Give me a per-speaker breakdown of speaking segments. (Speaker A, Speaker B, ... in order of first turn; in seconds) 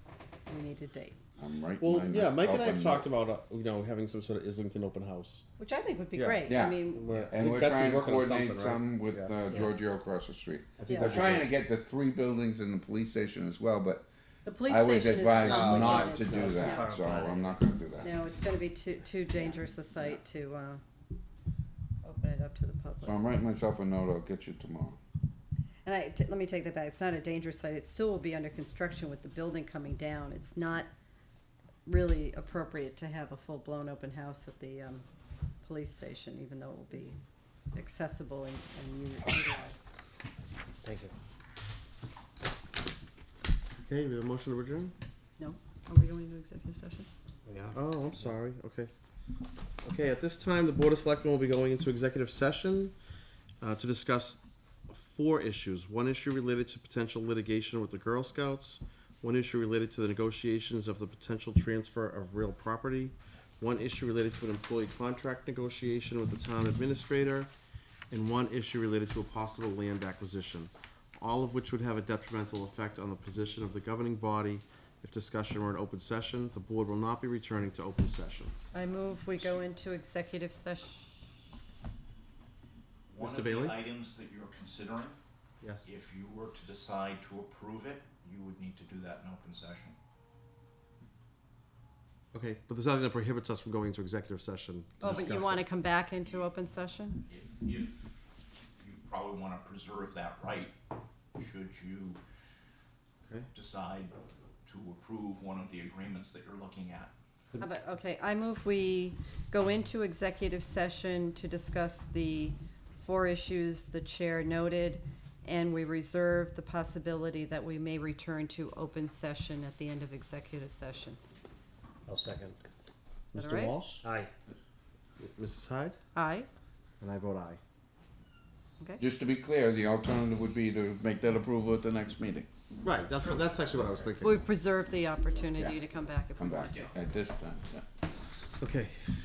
Speaker A: 0.5-1.2, 5.6-7.0, 10.9-11.2, 14.4-16.9, 18.0-20.8, 22.0-23.3, 25.9-30.9, 31.9-35.0, 35.6-37.2, 37.8-39.9, 45.4-47.1, 78.7-81.1, 95.0-97.2, 107.6-121.2, 123.3-123.8, 126.1-126.5, 134.2-136.9
Speaker B: 1.4-3.1, 6.5-14.1, 14.6-18.1, 23.1-25.0, 129.0-132.5, 136.4-137.8
Speaker C: 1.8-5.5, 6.1-9.3, 10.8-11.5, 43.8-44.9, 47.7-48.9, 49.8-52.9, 53.6-67.5, 68.1-78.5, 83.2-83.8, 85.6-85.9, 92.3-95.6, 123.3-124.0, 125.2-126.0, 127.0-127.6, 132.8-134.4, 138.6-139.0
Speaker D: 15.5-17.6, 40.8-41.1, 47.5-48.3, 122.1-122.6, 124.0-124.3
Speaker E: 83.1-85.2, 85.8-90.0, 95.0-96.5, 97.3-98.1, 98.8-100.7, 101.4-102.2, 103.5-107.1